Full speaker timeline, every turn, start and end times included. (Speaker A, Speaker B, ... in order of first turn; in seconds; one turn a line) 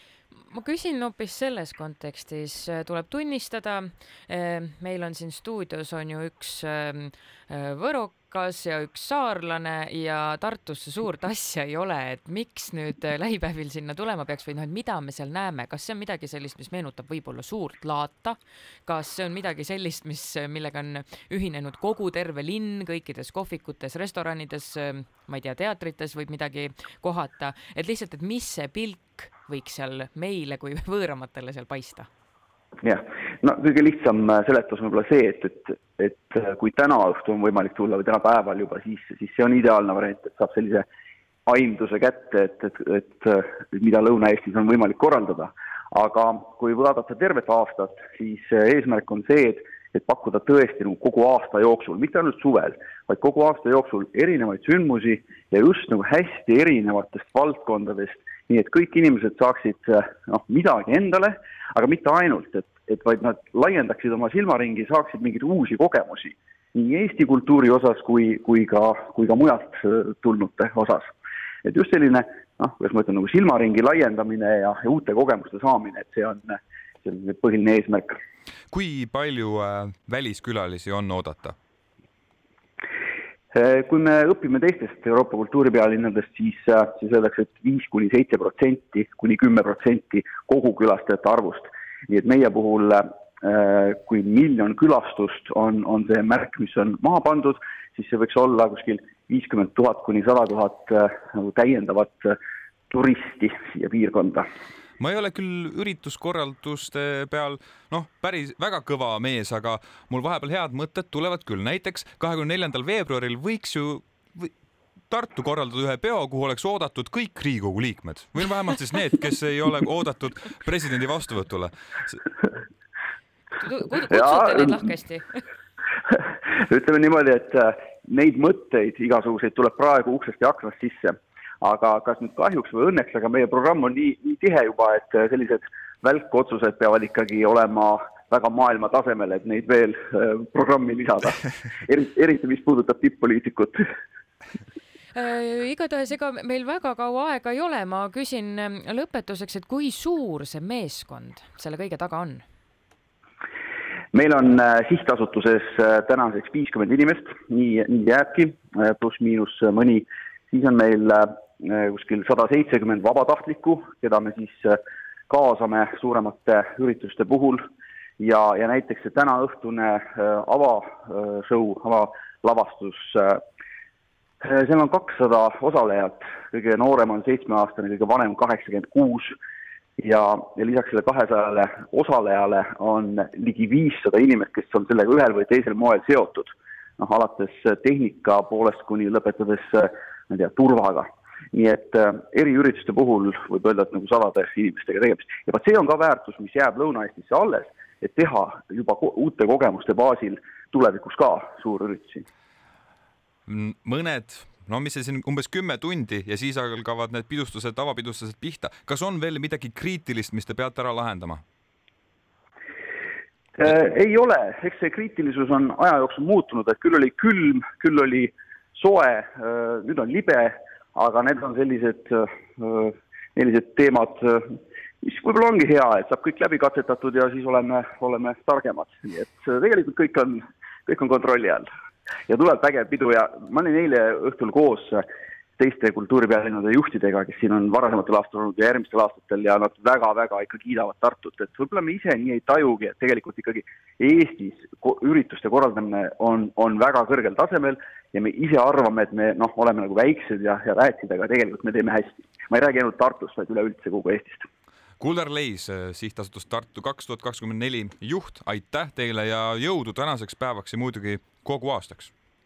Speaker A: 0.5-32.1
Speaker B: 32.8-40.9
Speaker B: 41.5-78.2
Speaker C: 78.7-81.5
Speaker B: 83.5-102.4
Speaker B: 102.9-104.5
Speaker C: 105.0-114.5
Speaker C: 115.1-122.2
Speaker A: 123.6-125.4
Speaker B: 124.1-124.8
Speaker B: 126.1-143.8
Speaker A: 145.1-152.4
Speaker B: 154.1-167.6
Speaker B: 168.2-173.4
Speaker B: 174.4-179.4
Speaker B: 180.0-202.2
Speaker C: 203.5-211.4
Speaker B: 213.6-231.7
Speaker B: 232.3-235.0
Speaker B: 235.6-254.5
Speaker C: 255.0-262.1